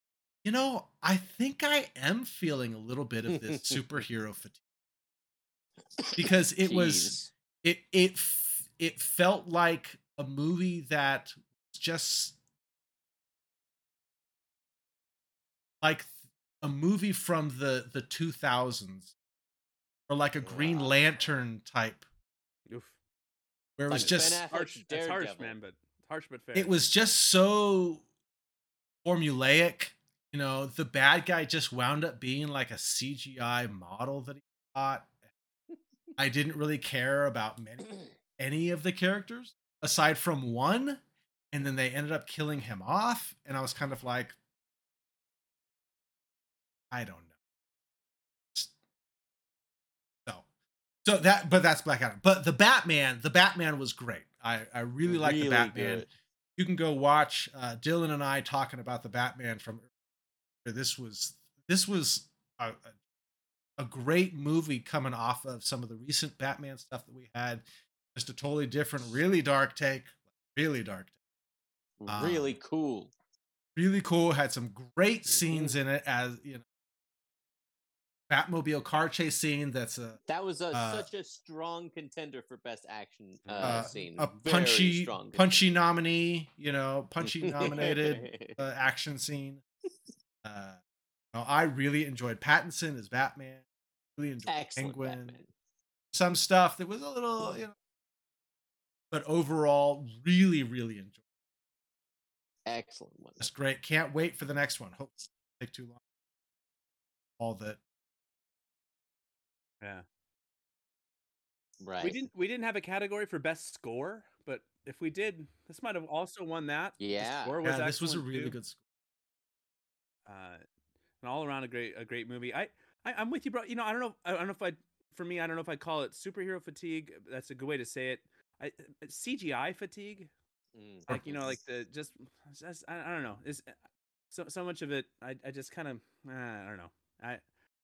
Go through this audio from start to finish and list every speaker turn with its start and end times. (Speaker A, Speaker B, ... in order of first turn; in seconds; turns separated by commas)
Speaker A: 0.4-4.6, Speaker B: 3.3-3.8, Speaker B: 6.0-7.3, Speaker A: 6.2-12.4, Speaker A: 15.8-19.1, Speaker A: 20.1-22.1, Speaker B: 20.4-21.0, Speaker C: 22.7-22.9, Speaker A: 23.8-24.4, Speaker B: 23.9-25.6, Speaker C: 23.9-26.8, Speaker A: 26.6-28.0, Speaker A: 29.1-35.1, Speaker A: 36.2-44.4, Speaker A: 46.9-47.3, Speaker A: 51.0-59.9, Speaker B: 55.0-56.1, Speaker A: 60.6-63.0, Speaker A: 63.8-71.1, Speaker B: 72.0-73.1, Speaker A: 72.1-72.6, Speaker A: 73.8-76.6, Speaker B: 75.3-75.8, Speaker A: 78.3-80.2, Speaker B: 80.3-85.6, Speaker A: 80.7-81.1, Speaker C: 83.5-83.9, Speaker A: 83.6-89.6, Speaker B: 87.2-88.6, Speaker A: 90.4-90.8, Speaker A: 91.3-93.7, Speaker A: 94.2-95.4, Speaker B: 94.5-95.5, Speaker A: 96.1-97.7, Speaker A: 99.1-101.2, Speaker B: 102.7-103.4, Speaker A: 103.4-106.0, Speaker A: 107.4-107.8, Speaker B: 111.8-112.2, Speaker C: 112.0-118.5, Speaker B: 117.0-117.5, Speaker A: 117.6-118.8, Speaker C: 120.3-120.6, Speaker C: 121.2-130.3, Speaker B: 130.8-131.5, Speaker C: 131.1-133.8, Speaker C: 134.3-137.4